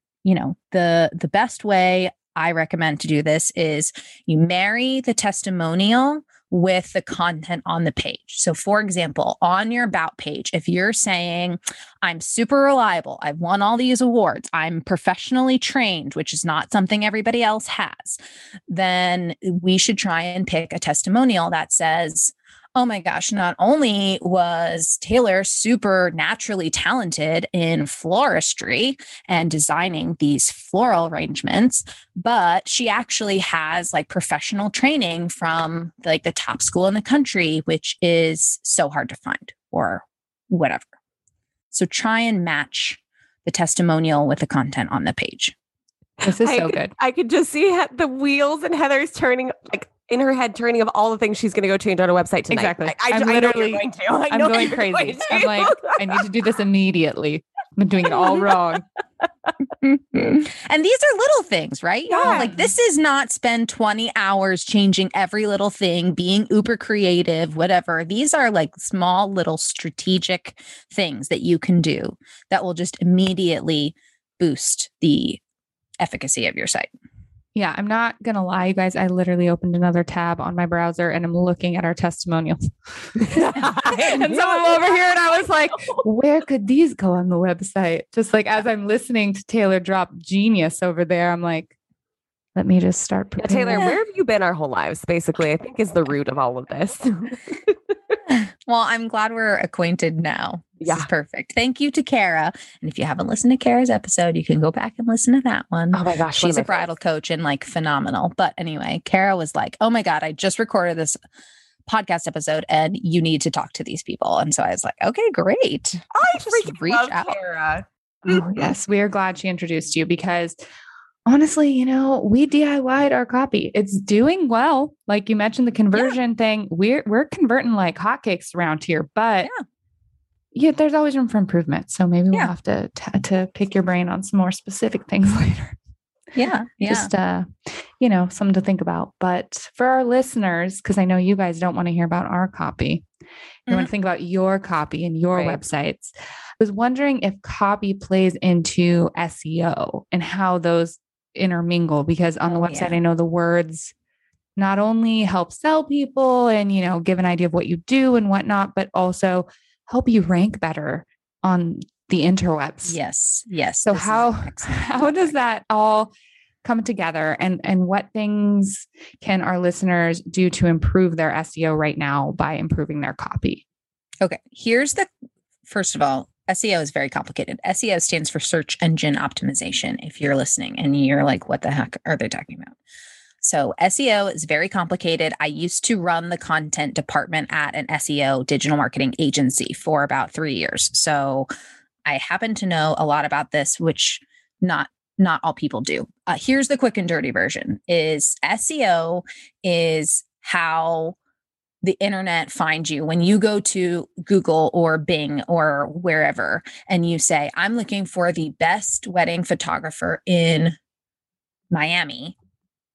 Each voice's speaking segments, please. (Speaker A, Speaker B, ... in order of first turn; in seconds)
Speaker A: 0.2-40.9, 41.7-45.5, 59.8-75.4, 76.0-76.9, 98.3-111.2, 111.9-117.4, 136.3-137.1, 152.5-153.0, 162.8-165.3, 174.2-175.1, 175.7-182.8, 183.4-191.5, 192.1-201.2, 201.8-210.8, 211.7-212.3
Speaker B: 46.2-56.2, 62.1-62.5, 83.2-86.0, 93.4-98.0, 100.8-101.1, 105.9-106.9, 116.1-118.5, 145.3-145.6
Speaker C: 46.2-46.9, 52.5-58.8, 62.2-62.6, 77.5-91.8, 92.6-93.9, 118.3-120.6, 121.3-129.5, 130.5-135.8, 136.8-143.1, 143.7-153.9, 154.6-163.0, 163.9-166.1, 166.6-173.7